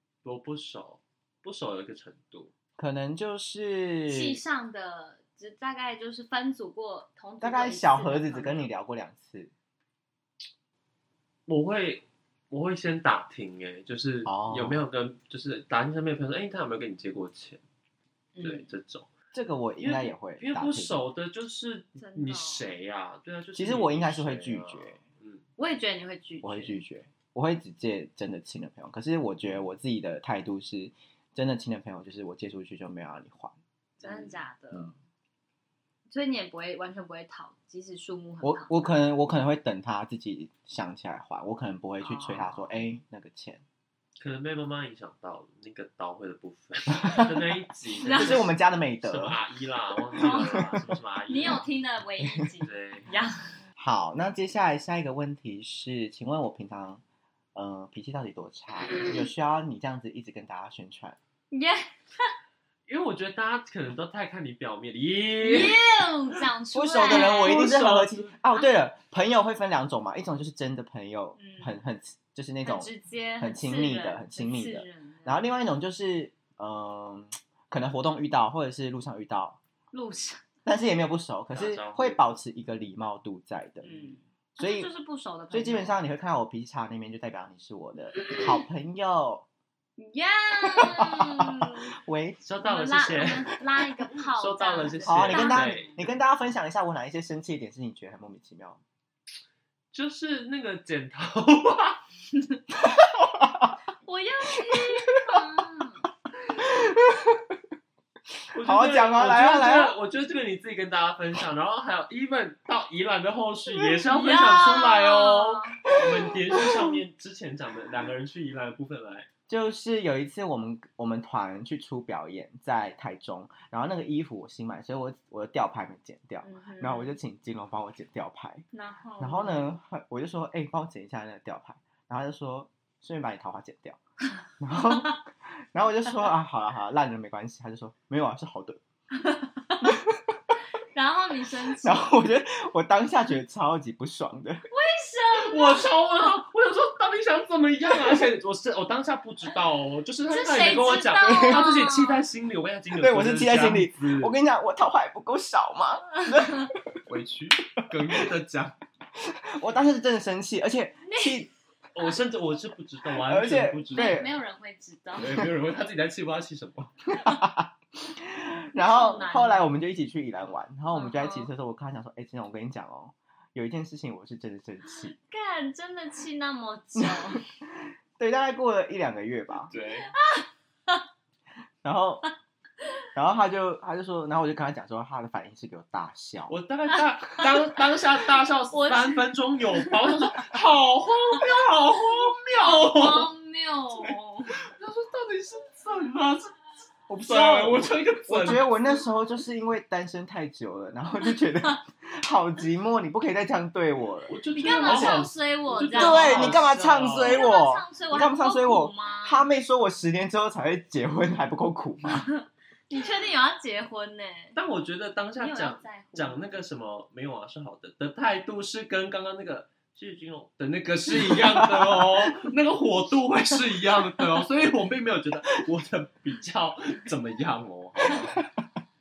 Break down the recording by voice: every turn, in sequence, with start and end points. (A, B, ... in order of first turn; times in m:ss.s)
0:00.2-0:02.5 A
0:02.8-0:04.4 B
0:04.1-0:08.7 C
0:07.4-0:09.5 B
0:11.5-0:17.6 A
0:14.2-0:14.9 B
0:18.4-0:18.7 C
0:18.4-0:19.1 A
0:19.3-0:21.1 B
0:19.8-0:25.4 A
0:22.0-0:22.7 C
0:23.6-0:25.0 B
0:25.6-0:26.8 C
0:26.4-0:34.9 B
0:34.0-0:34.9 C
0:36.1-0:39.0 C
0:38.4-0:43.6 B
0:42.0-0:42.8 C
0:44.2-0:48.5 A
0:46.9-0:47.3 B
0:48.0-0:48.5 C
0:48.2-0:49.4 B
0:49.0-0:51.7 A
0:50.2-0:50.7 C
0:50.2-0:50.7 B
0:51.3-0:53.6 C
0:52.6-0:53.1 A
0:53.8-0:57.0 B
0:57.6-1:01.2 B
1:01.5-1:02.3 C
1:02.9-1:05.8 A
1:05.4-1:07.8 C
1:06.7-1:19.6 B
1:07.0-1:08.3 A
1:11.4-1:11.8 C
1:12.6-1:15.5 C
1:19.9-1:20.4 C
1:20.6-1:23.9 B
1:21.5-1:22.2 A
1:23.8-1:26.0 C
1:24.6-1:24.9 B
1:25.5-1:29.5 B
1:30.0-1:31.9 C
1:30.6-1:32.4 B
1:32.4-1:33.5 A
1:32.6-1:36.0 C
1:34.3-1:36.1 A
1:35.1-1:38.8 B
1:39.9-1:42.0 A
1:42.8-1:43.8 B
1:44.0-1:46.0 C
1:44.5-1:45.6 B
1:46.6-1:47.6 B
1:48.5-1:59.3 A
1:48.6-1:49.9 B
1:54.1-1:55.8 C
1:55.9-1:56.8 B
1:59.5-2:08.6 B
2:06.4-2:07.2 C
2:08.7-2:09.8 C
2:09.2-2:14.0 B
2:14.6-2:18.8 B
2:19.2-2:20.0 C
2:19.8-2:20.6 B
2:20.9-2:22.1 C
2:21.8-2:24.6 B
2:24.7-2:26.0 C
2:25.3-2:34.4 A
2:30.3-2:32.2 C
2:31.2-2:31.6 B
2:33.0-2:37.0 B
2:37.1-2:38.8 A
2:39.2-2:41.5 B
2:41.1-2:41.5 C
2:42.0-2:44.3 A
2:43.3-2:44.3 B
2:43.9-2:45.4 C
2:45.2-2:46.9 A
2:47.1-2:55.2 B
2:48.8-2:49.7 C
2:50.9-2:51.5 C
2:55.0-2:57.4 C
2:58.2-2:59.7 B
2:59.7-3:00.1 A
3:00.2-3:01.0 C
3:01.8-3:02.3 B
3:03.2-3:06.6 B
3:06.5-3:13.3 A
3:08.7-3:10.4 C
3:12.5-3:14.7 C
3:14.0-3:16.6 A
3:17.1-3:25.2 B
3:17.2-3:18.7 A
3:24.3-3:27.4 A
3:24.6-3:29.5 C
3:25.9-3:32.3 B
3:32.1-3:34.6 C
3:34.6-3:48.4 A
3:35.4-3:36.5 C
3:41.2-3:42.1 B